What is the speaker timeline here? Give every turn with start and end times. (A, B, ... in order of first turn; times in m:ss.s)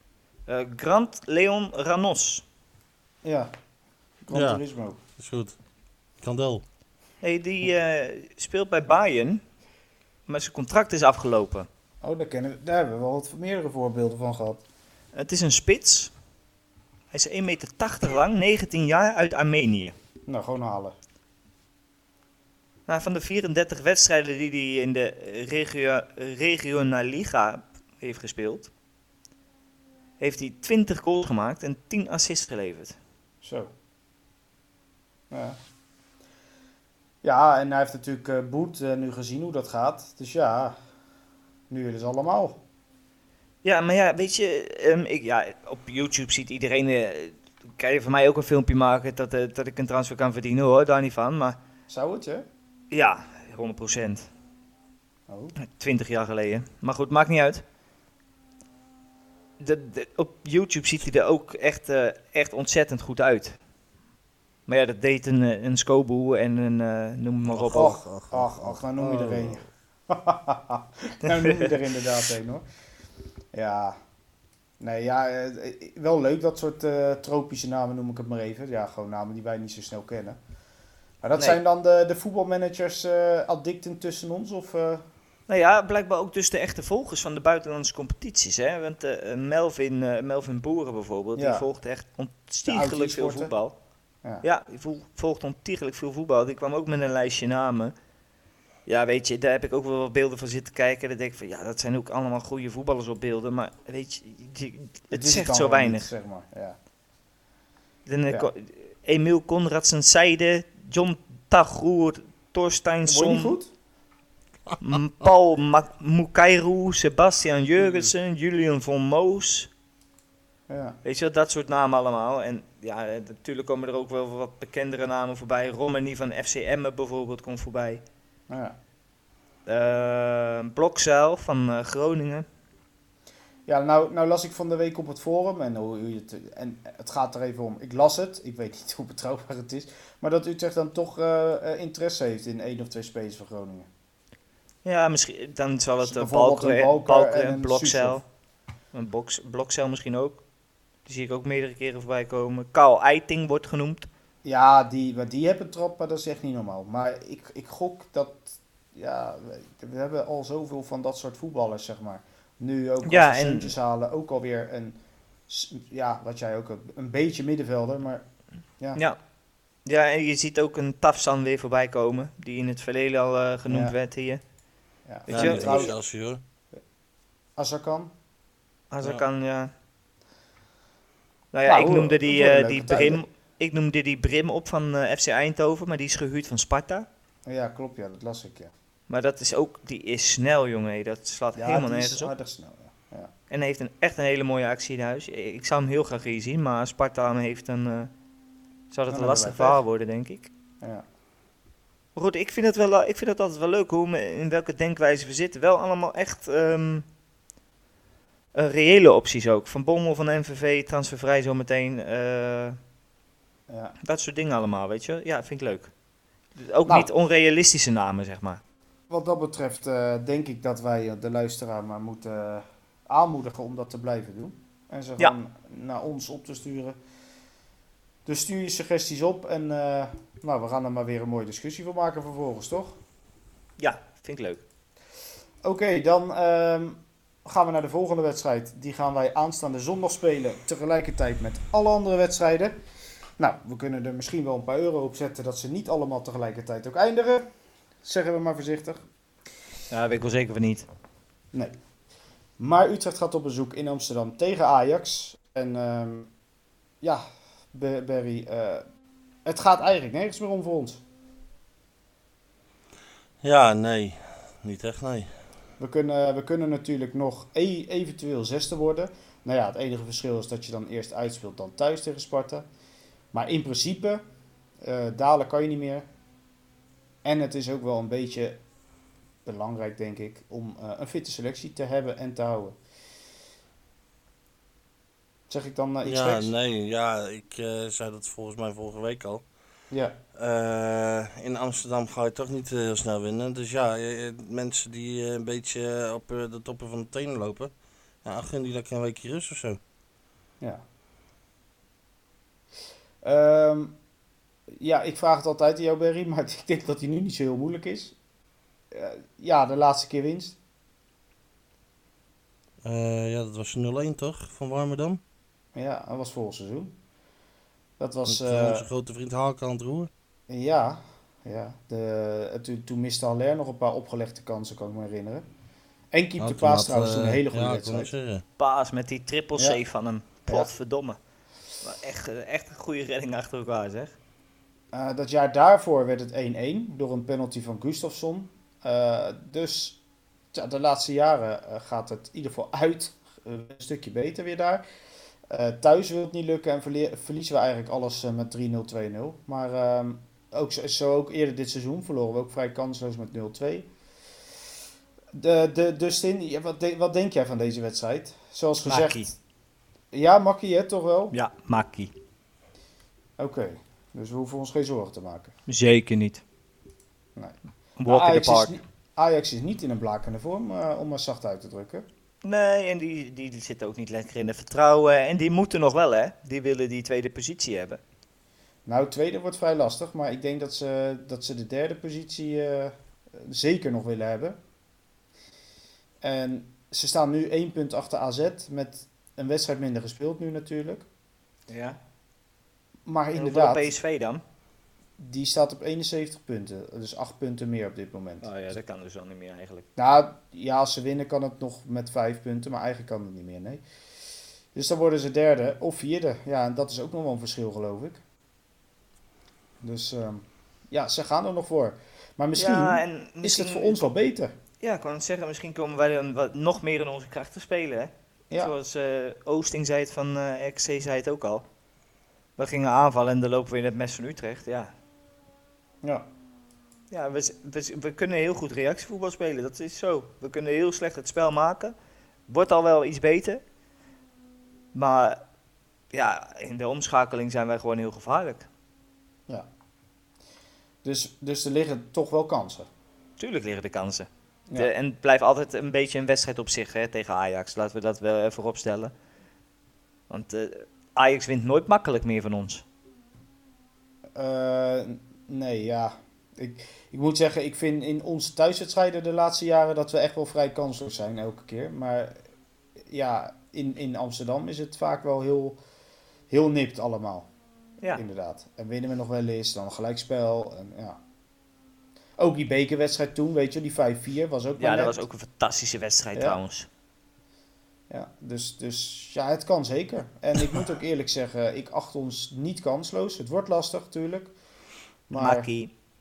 0:00.5-0:02.4 A
0:03.2-0:03.5 B
0:04.2-0:05.0 B
0:04.3-0:04.6 C
0:05.2-0:05.6 C
0:06.2-0:06.6 C
0:07.2-0:09.4 A
0:10.3-0:11.7 A
0:12.0-0:14.6 B
0:15.1-0:16.1 A
0:17.1-0:20.0 A
0:20.3-0:20.9 B
0:22.9-0:28.7 A
0:30.2-0:33.0 A
0:33.4-0:33.7 B
0:35.3-0:35.6 B
0:37.2-0:40.8 B
0:41.7-0:42.6 B
0:43.6-0:51.6 A
0:51.9-0:52.4 B
0:52.9-0:54.3 A
0:55.3-0:55.6 B
0:55.6-0:57.6 A
0:59.6-1:03.6 A
1:04.7-1:07.9 A
1:07.5-1:09.6 C
1:07.7-1:12.6 B
1:11.2-1:11.7 A
1:13.5-1:14.0 B
1:14.8-1:20.4 B
1:21.2-1:25.0 B
1:25.5-1:33.8 A
1:31.4-1:31.6 B
1:32.7-1:33.5 B
1:34.4-1:37.9 A
1:38.9-1:46.1 A
1:45.1-1:46.8 B
1:48.1-1:53.6 A
1:53.1-1:53.7 B
1:54.8-1:59.7 A
2:00.7-2:01.0 B
2:01.0-2:08.0 A
2:08.5-2:08.8 B
2:09.7-2:12.5 A
2:13.7-2:23.9 B
2:24.8-2:28.2 A
2:26.0-2:28.2 B
2:28.9-2:30.4 A
2:31.1-2:34.1 A
2:34.4-2:45.0 B
2:43.0-2:43.7 A
2:45.5-2:48.2 B
2:49.8-2:54.4 A
2:53.7-2:54.0 B
2:55.1-2:56.0 B
2:55.3-2:56.4 C
2:55.3-2:55.9 A
2:57.6-2:58.1 B
2:58.9-2:59.7 A
3:01.5-3:07.1 A
3:01.7-3:03.2 B
3:07.5-3:08.7 B
3:09.1-3:12.3 A
3:11.6-3:13.3 B
3:13.5-3:18.1 A
3:18.9-3:20.5 A
3:19.1-3:19.8 B
3:22.2-3:27.1 A
3:28.5-3:32.8 A
3:33.7-3:34.0 B
3:34.0-3:35.9 A
3:36.6-3:38.6 A
3:39.1-3:47.0 B
3:48.3-3:53.0 B
3:53.8-3:54.6 A
3:55.6-4:02.8 B
4:03.4-4:07.5 B
4:08.0-4:09.0 B
4:09.9-4:10.9 A
4:12.6-4:16.3 B
4:17.0-4:18.8 B
4:19.4-4:21.0 B
4:23.4-4:25.3 C
4:25.8-4:32.6 B
4:33.3-4:34.2 B
4:34.8-4:36.0 B
4:37.2-4:38.6 B
4:39.4-4:42.8 B
4:45.5-4:46.5 B
4:46.0-4:49.4 C
4:50.4-4:57.7 C
4:58.2-4:59.8 C
5:03.2-5:04.0 B
5:04.8-5:08.2 B
5:08.9-5:10.6 B
5:12.8-5:15.2 C
5:15.8-5:16.9 B
5:18.0-5:18.9 B
5:18.3-5:20.1 C
5:20.5-5:25.4 B
5:26.1-5:28.1 B
5:26.4-5:28.4 C
5:28.6-5:31.2 A
5:31.8-5:34.2 A
5:34.9-5:40.0 B
5:40.5-5:44.8 B
5:45.5-5:53.9 B
5:55.3-5:59.3 B
5:58.9-5:59.3 A
6:00.1-6:01.3 B
6:01.3-6:02.1 A
6:03.4-6:05.5 B
6:05.7-6:06.4 A
6:07.4-6:12.0 B
6:08.0-6:08.7 A
6:12.4-6:18.0 A
6:18.9-6:24.6 B
6:26.2-6:31.1 B
6:31.7-6:32.0 A
6:33.1-6:34.0 B
6:33.3-6:34.4 A
6:35.2-6:38.5 B
6:38.4-6:39.9 A
6:40.0-6:43.8 B
6:44.8-6:48.2 B
6:49.8-6:54.5 B
6:52.6-6:54.1 A
6:54.8-7:01.6 A
7:02.6-7:04.9 A
7:07.1-7:12.0 A
7:12.5-7:13.6 A
7:14.9-7:15.4 A
7:16.1-7:18.7 A
7:21.0-7:22.9 B
7:23.4-7:29.1 A
7:30.3-7:32.8 A
7:34.4-7:42.4 B
7:43.1-7:45.8 B
7:46.5-7:47.5 B
7:48.2-7:51.2 B
7:52.4-7:55.2 B
7:54.8-7:56.9 A
7:58.1-8:04.5 B
8:05.3-8:05.7 B
8:05.4-8:05.9 A